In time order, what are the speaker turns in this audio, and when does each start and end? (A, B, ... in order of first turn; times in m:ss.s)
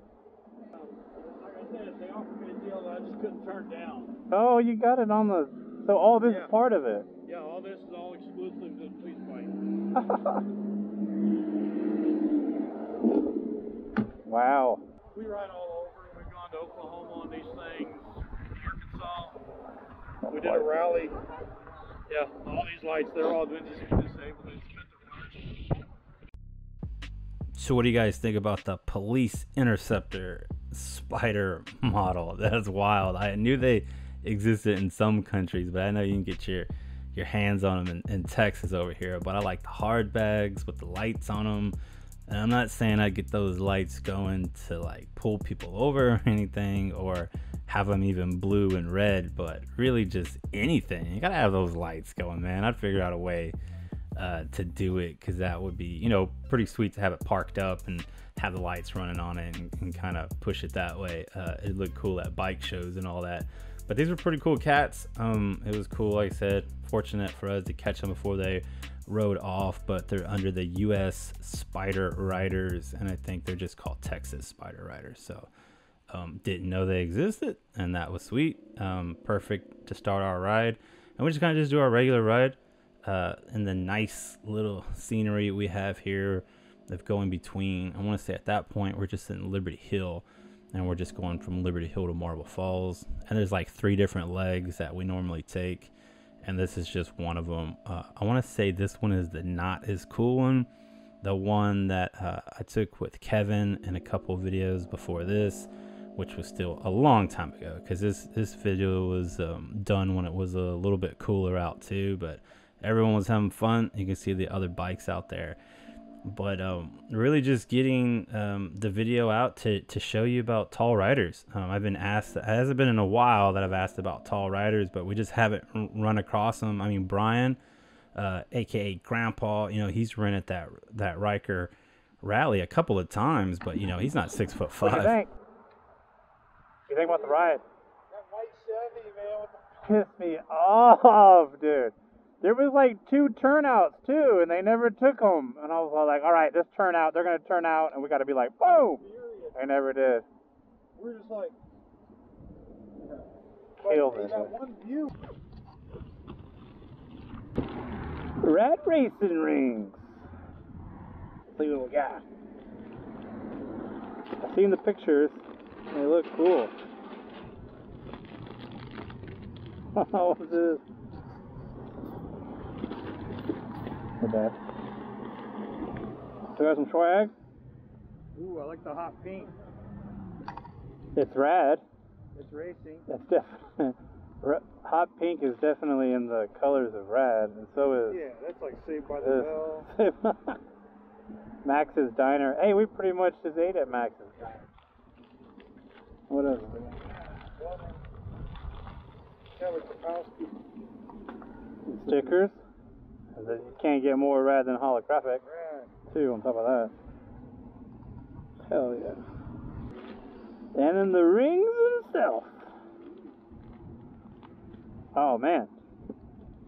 0:00.7-0:04.2 A
0:04.3-0:07.1 B
0:06.2-0:06.5 A
0:07.2-0:09.5 A
0:10.0-0:10.4 B
0:14.2-0:14.8 B
0:15.1-0:19.4 A
0:20.3-0:21.1 A
0:20.4-0:20.7 B
0:22.1-0:25.5 A
0:27.5-0:41.8 C
0:42.3-0:53.5 C
0:54.2-1:15.5 C
1:16.1-1:40.7 C
1:41.2-1:55.6 C
1:56.2-2:07.6 C
2:08.1-2:15.2 C
2:14.8-2:15.3 B
2:16.9-2:17.6 B
2:17.0-2:17.4 D
2:18.1-2:19.9 D
2:19.8-2:30.2 B
2:28.6-2:29.6 D
2:30.9-2:31.6 D
2:33.8-2:35.1 D
2:33.8-2:34.5 B
2:38.4-2:40.1 B
2:41.5-2:42.2 B
2:44.4-2:46.7 B
2:49.9-2:50.8 B
2:54.2-2:54.6 B
2:56.5-2:57.3 B
2:58.3-2:59.5 D
3:01.1-3:01.8 B
3:02.3-3:03.1 D
3:03.1-3:08.2 B
3:08.1-3:09.9 D
3:09.2-3:10.6 B
3:11.6-3:14.7 B
3:16.3-3:17.0 B
3:17.3-3:18.0 D
3:19.6-3:20.6 D
3:21.9-3:22.6 B
3:23.4-3:25.4 B
3:25.4-3:25.9 D
3:26.1-3:26.9 B
3:28.6-3:29.2 B
3:30.7-3:32.6 B
3:35.1-3:35.7 B